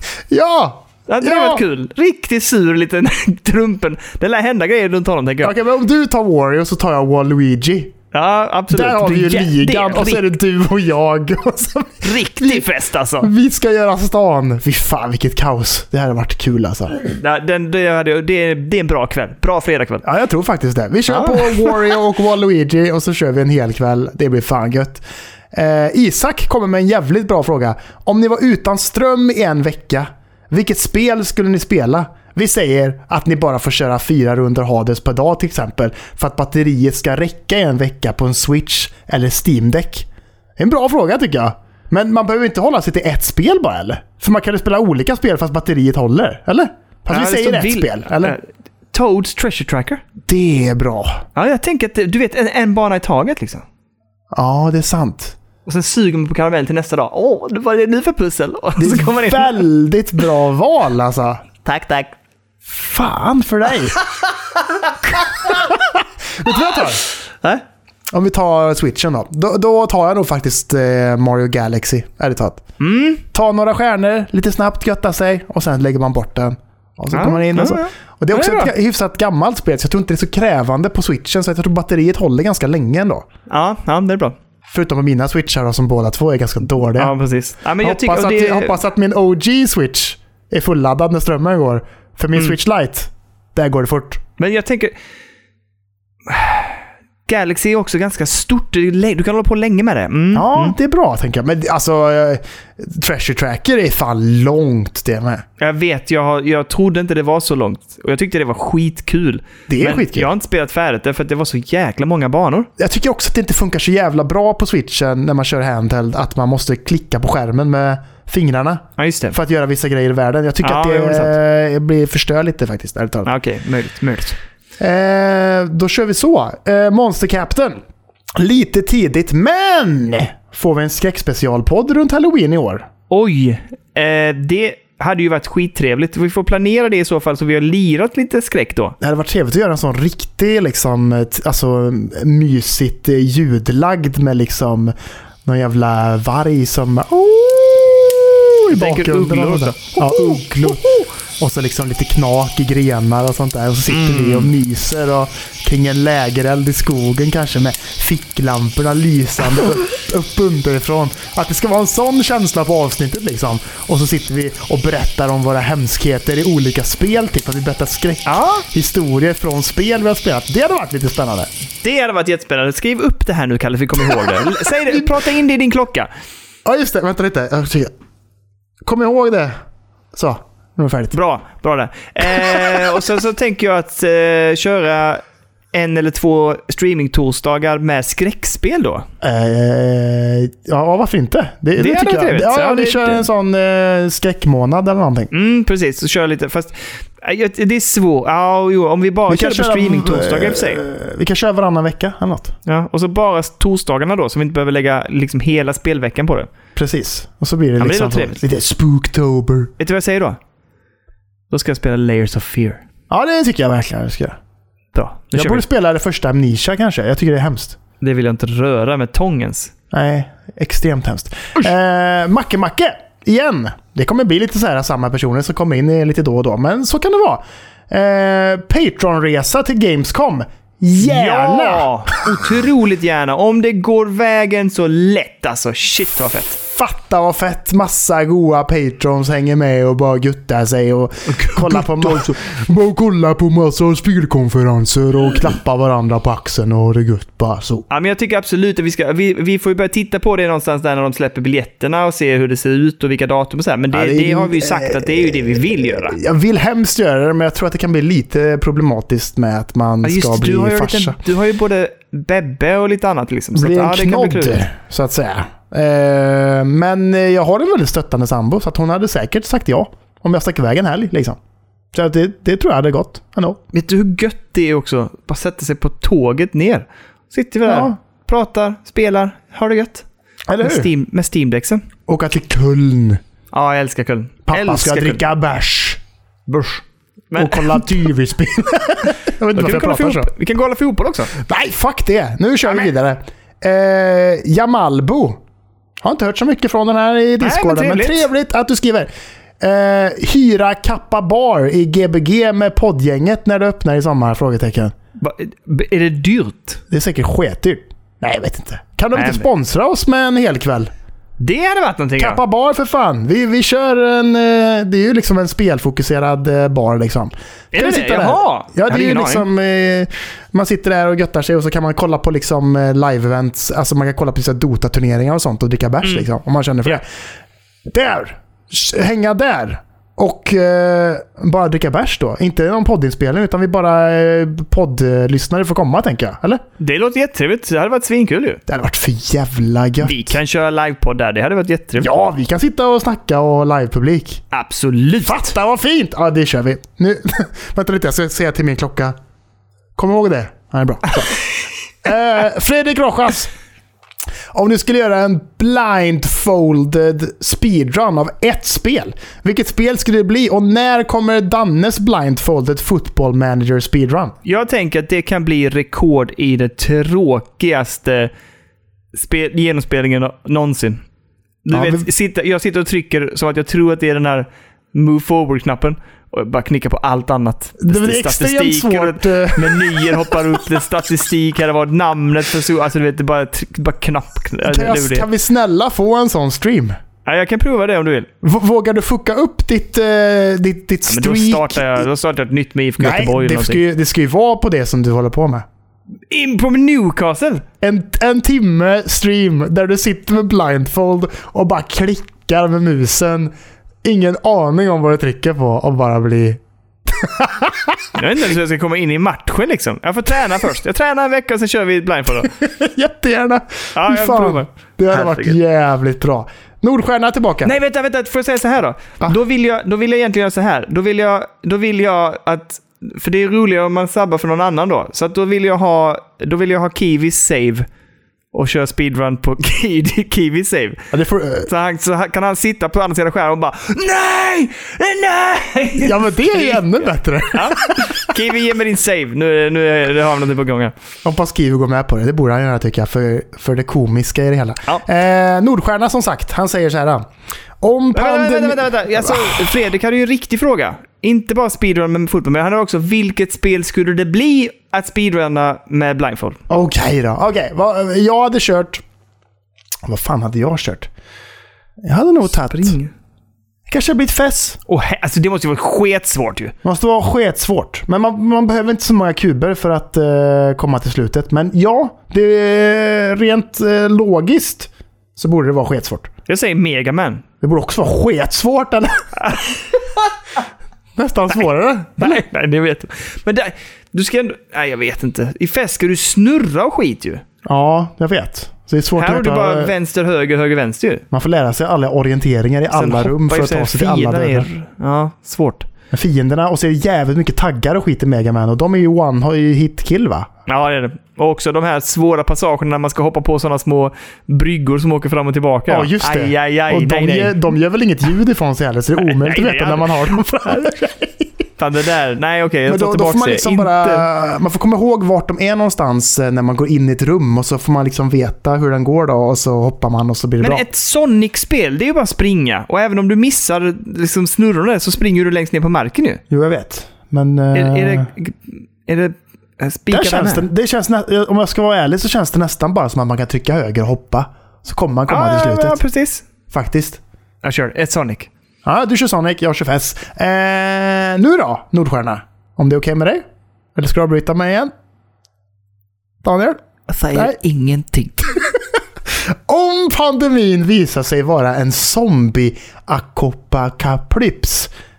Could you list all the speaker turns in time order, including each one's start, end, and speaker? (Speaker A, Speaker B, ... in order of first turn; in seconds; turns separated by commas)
Speaker A: 0.3-1.6, Speaker B: 1.1-5.5, Speaker A: 5.4-7.9, Speaker B: 8.1-10.2, Speaker A: 8.7-12.6, Speaker B: 12.0-13.3, Speaker A: 13.2-17.1, Speaker B: 17.1-20.0, Speaker A: 20.0-40.1, Speaker B: 21.1-21.9, Speaker A: 40.6-48.4, Speaker B: 47.1-50.0, Speaker A: 50.2-51.2, Speaker B: 51.4-53.6, Speaker A: 54.3-55.4, Speaker B: 55.6-59.6, Speaker A: 58.8-61.4, Speaker B: 61.6-62.1, Speaker A: 62.6-64.0, Speaker B: 65.0-65.7, Speaker A: 65.4-67.0, Speaker A: 68.1-72.6, Speaker B: 72.8-73.2, Speaker A: 73.3-83.2, Speaker B: 77.1-78.7, Speaker B: 83.5-84.4, Speaker A: 84.7-87.1, Speaker B: 87.0-88.8, Speaker A: 87.8-94.2, Speaker B: 94.4-94.9, Speaker B: 96.2-100.7, Speaker A: 100.3-105.4, Speaker B: 105.6-112.7, Speaker A: 109.7-110.3, Speaker A: 112.8-123.3, Speaker B: 119.0-119.3, Speaker B: 120.6-121.3, Speaker B: 123.2-124.4, Speaker A: 124.8-127.8, Speaker A: 128.3-132.9, Speaker B: 133.1-138.9, Speaker A: 139.0-144.9, Speaker A: 145.4-171.5, Speaker B: 148.7-151.1, Speaker B: 153.9-154.5, Speaker B: 168.2-168.6, Speaker B: 171.8-176.1, Speaker A: 176.6-177.9, Speaker A: 178.8-179.6, Speaker A: 180.1-181.1, Speaker B: 181.1-185.2, Speaker B: 185.7-189.1, Speaker A: 189.2-195.3, Speaker B: 191.8-193.2, Speaker B: 195.3-200.8, Speaker A: 199.3-202.6, Speaker B: 202.7-206.5, Speaker A: 206.8-209.7, Speaker B: 207.8-208.4, Speaker B: 209.8-210.4, Speaker B: 211.5-212.8, Speaker A: 213.1-214.4, Speaker B: 214.9-215.6, Speaker A: 215.3-217.8, Speaker B: 218.0-219.7, Speaker A: 219.9-232.2, Speaker B: 231.0-236.6, Speaker A: 236.6-247.8, Speaker B: 241.3-242.4, Speaker B: 247.9-256.2, Speaker A: 253.9-261.2, Speaker B: 260.0-264.6, Speaker A: 263.5-271.4, Speaker A: 271.9-273.6, Speaker B: 273.7-280.1, Speaker A: 277.6-278.0, Speaker A: 280.5-280.9, Speaker B: 280.6-281.9, Speaker A: 282.1-283.2, Speaker B: 283.5-285.2, Speaker A: 284.5-286.0, Speaker B: 286.5-287.9, Speaker A: 287.4-290.3, Speaker B: 289.5-291.3, Speaker A: 291.3-295.4, Speaker A: 296.0-299.1, Speaker B: 297.4-298.2, Speaker A: 299.6-304.9, Speaker B: 305.2-306.8, Speaker A: 306.9-310.9, Speaker B: 309.1-309.4, Speaker B: 311.4-312.4, Speaker A: 312.2-327.1, Speaker B: 317.7-319.4, Speaker A: 327.9-336.6, Speaker B: 336.8-338.6, Speaker A: 338.7-340.4, Speaker B: 340.0-342.1, Speaker A: 342.0-344.4, Speaker B: 344.5-345.4, Speaker A: 345.2-349.1, Speaker A: 349.9-351.4, Speaker A: 352.0-353.5, Speaker A: 354.5-364.4, Speaker B: 364.4-368.3, Speaker B: 369.1-371.0, Speaker B: 371.6-385.3, Speaker A: 371.7-372.1, Speaker A: 377.8-380.6, Speaker A: 384.6-386.9, Speaker B: 387.2-388.3, Speaker A: 388.4-392.1, Speaker B: 391.1-393.8, Speaker A: 393.0-395.6, Speaker B: 396.3-397.6, Speaker A: 397.8-403.5, Speaker A: 404.0-408.1, Speaker B: 408.1-412.5, Speaker A: 412.6-417.7, Speaker B: 413.9-415.6, Speaker B: 417.6-427.9, Speaker B: 428.5-431.1, Speaker A: 431.1-431.7, Speaker B: 431.7-437.0, Speaker A: 436.0-438.3, Speaker B: 437.5-440.9, Speaker A: 441.2-447.2, Speaker A: 447.8-449.7, Speaker B: 448.1-456.6, Speaker A: 456.7-459.0, Speaker A: 460.1-461.1, Speaker A: 462.0-463.0, Speaker B: 462.6-463.1, Speaker A: 463.9-464.8, Speaker B: 464.9-466.7, Speaker A: 466.8-476.3, Speaker B: 476.5-477.4, Speaker A: 477.6-479.4, Speaker B: 479.4-480.3, Speaker A: 481.1-482.4, Speaker B: 482.2-487.4, Speaker A: 487.6-489.9, Speaker B: 489.2-491.2, Speaker A: 491.3-494.7, Speaker B: 492.9-495.9, Speaker A: 496.1-500.5, Speaker B: 500.6-507.7, Speaker A: 505.9-511.5, Speaker B: 509.2-510.3, Speaker B: 511.8-514.2, Speaker A: 512.9-520.8, Speaker B: 520.6-526.4, Speaker A: 526.5-528.3, Speaker B: 527.7-530.7, Speaker A: 530.1-536.0, Speaker B: 535.3-536.5, Speaker A: 536.7-537.2, Speaker B: 537.6-538.5, Speaker A: 538.8-543.4, Speaker A: 544.0-544.9, Speaker A: 546.4-546.8, Speaker B: 547.1-548.5, Speaker A: 549.4-554.9